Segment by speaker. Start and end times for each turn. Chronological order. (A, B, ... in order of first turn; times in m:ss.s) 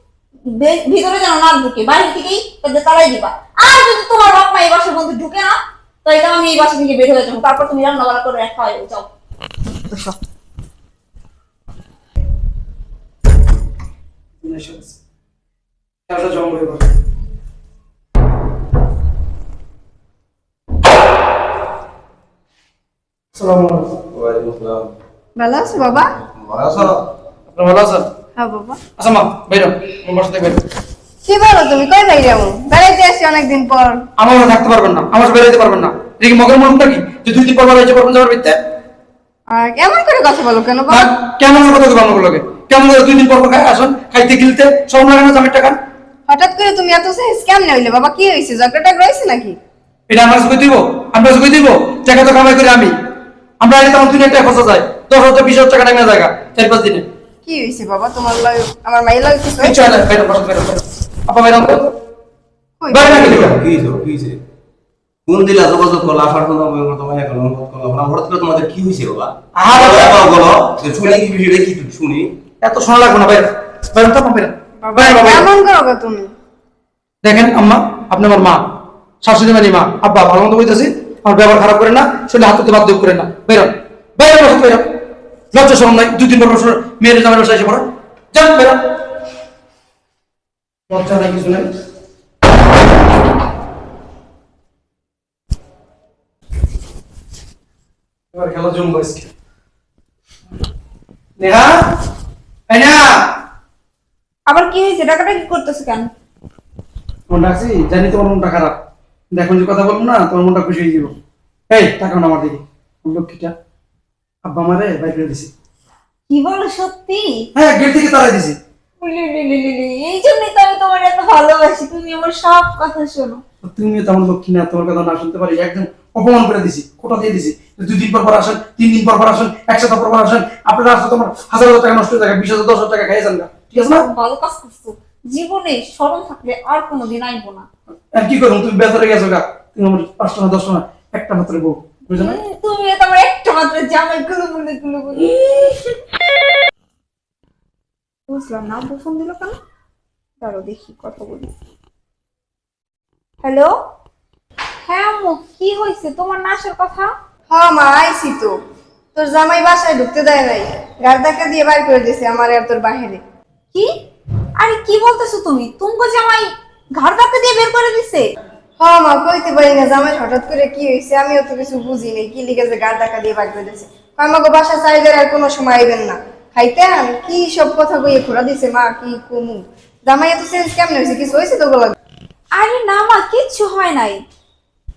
0:00.5-0:09.1 A
0:14.4-0:15.0 B
0:16.1-0:16.8 B
0:23.4-0:24.0 B
0:24.1-0:24.9 C
0:25.4-0:26.1 D
0:26.3-0:26.9 C
0:27.5-0:28.0 B
0:28.4-0:28.8 D
0:29.0-0:30.6 B
0:31.2-0:34.0 D
0:34.2-0:38.6 B
0:39.5-0:41.1 D
0:40.9-0:45.8 B
0:46.3-0:49.6 D
0:50.1-0:52.9 B
0:53.6-0:57.0 B
0:57.4-0:59.8 D
0:59.6-1:01.9 B
1:02.8-1:03.4 D
1:02.9-1:03.6 B
1:03.1-1:04.4 C
1:05.3-1:12.3 C
1:09.5-1:10.4 B
1:12.6-1:15.5 B
1:14.8-1:16.3 D
1:17.2-1:18.6 B
1:19.2-1:24.8 B
1:25.5-1:28.8 B
1:30.9-1:31.7 B
1:38.3-1:39.3 B
1:41.4-1:41.7 B
1:42.7-1:43.1 B
1:44.5-1:46.1 A
1:47.3-1:48.8 B
1:49.3-1:51.1 B
1:51.7-1:53.5 B
1:54.5-1:55.5 B
1:56.3-1:57.4 A
1:57.6-1:58.6 B
1:59.0-2:03.4 A
2:03.6-2:14.0 B
2:13.9-2:17.7 A
2:18.1-2:22.4 B
2:22.1-2:25.9 A
2:28.3-2:29.5 A
2:30.4-2:31.5 A
2:33.4-2:33.7 A
2:34.9-2:37.1 A
2:37.5-2:38.6 D
2:39.1-2:43.2 D
2:44.6-2:48.3 A
2:48.8-3:02.0 D
3:02.5-3:04.2 A